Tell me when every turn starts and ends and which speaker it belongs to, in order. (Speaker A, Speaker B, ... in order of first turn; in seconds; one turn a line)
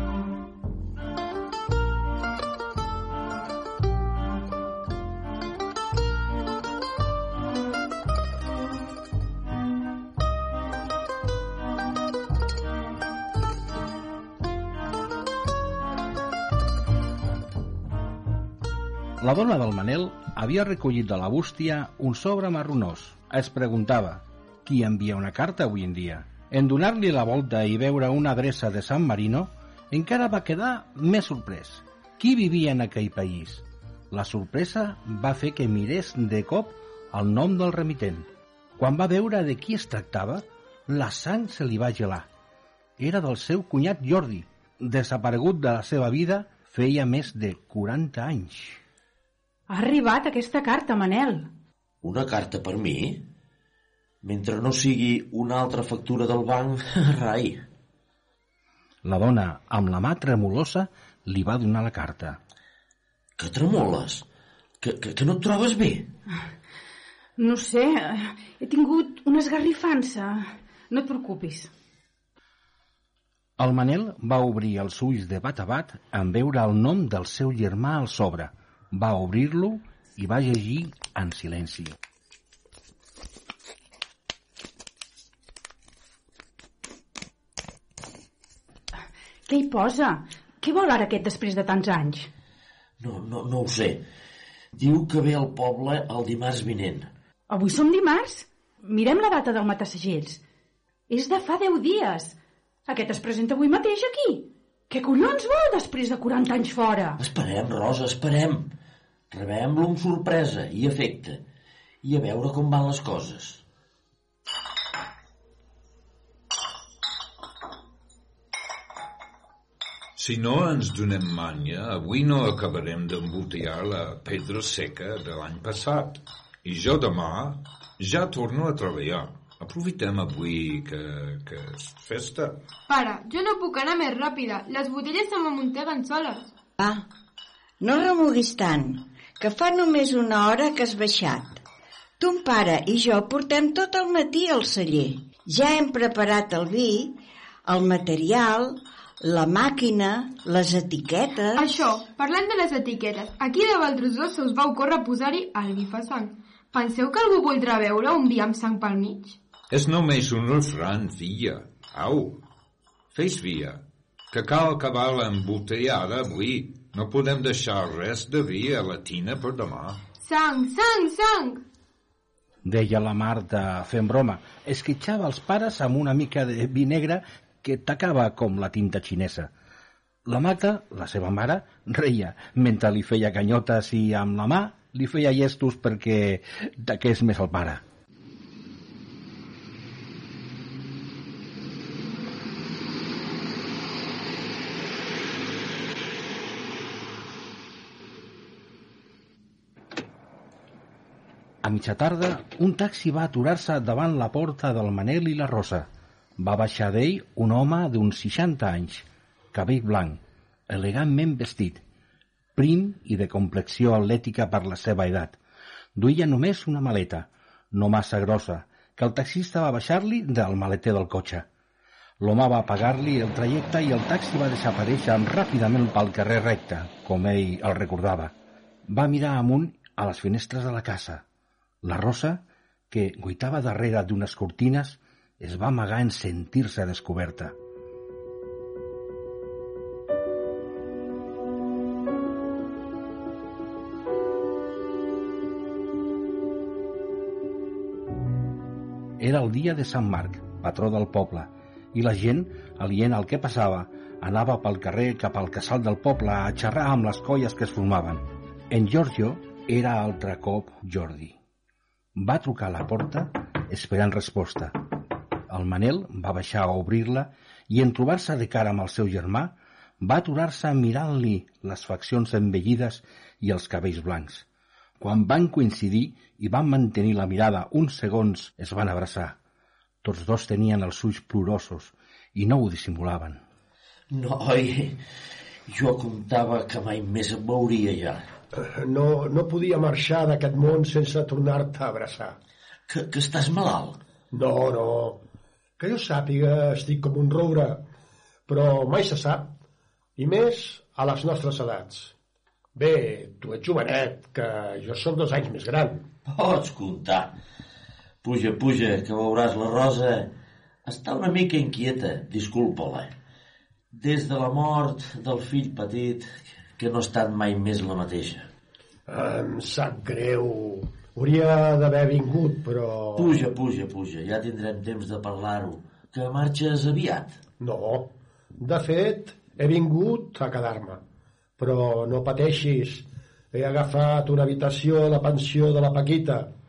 Speaker A: 19.2-42.3
Speaker A: 43.0-48.8
Speaker B: 49.7-51.5
Speaker C: 52.0-53.2
Speaker C: 54.2-57.6
Speaker A: 59.0-62.4
Speaker C: 63.4-64.2
Speaker C: 64.8-66.1
Speaker B: 67.4-71.7
Speaker A: 73.6-82.0
Speaker B: 89.5-92.3
Speaker C: 93.0-94.0
Speaker C: 94.8-97.1
Speaker B: 97.5-100.4
Speaker B: 101.1-102.4
Speaker B: 102.9-107.2
Speaker C: 107.2-108.7
Speaker C: 109.3-111.4
Speaker C: 112.0-113.6
Speaker D: 120.2-132.6
Speaker E: 132.9-136.5
Speaker F: 136.8-137.1
Speaker F: 137.8-141.6
Speaker F: 142.2-151.8
Speaker E: 151.6-159.4
Speaker D: 159.7-162.4
Speaker D: 163.1-170.0
Speaker E: 170.2-171.6
Speaker A: 172.7-179.5
Speaker A: 180.3-187.8
Speaker A: 201.6-211.8
Speaker A: 212.6-215.4
Speaker A: 216.0-221.5
Speaker A: 222.2-228.4
Speaker A: 228.9-231.2
Speaker A: 231.8-237.6
Speaker A: 249.2-261.4
Speaker A: 262.2-264.8
Speaker A: 265.5-274.5
Speaker A: 275.0-279.4
Speaker A: 280.0-283.4
Speaker C: 284.1-285.0
Speaker C: 285.7-288.3
Speaker G: 288.6-292.4
Speaker C: 292.9-294.0
Speaker G: 294.3-295.2
Speaker G: 295.8-297.8
Speaker G: 298.5-299.5
Speaker G: 300.2-302.1
Speaker G: 302.8-306.0
Speaker C: 306.3-307.4
Speaker C: 308.2-310.3
Speaker C: 310.9-313.1
Speaker C: 313.9-318.5
Speaker G: 319.1-323.4
Speaker C: 323.2-327.4
Speaker G: 327.6-331.0
Speaker G: 331.6-336.5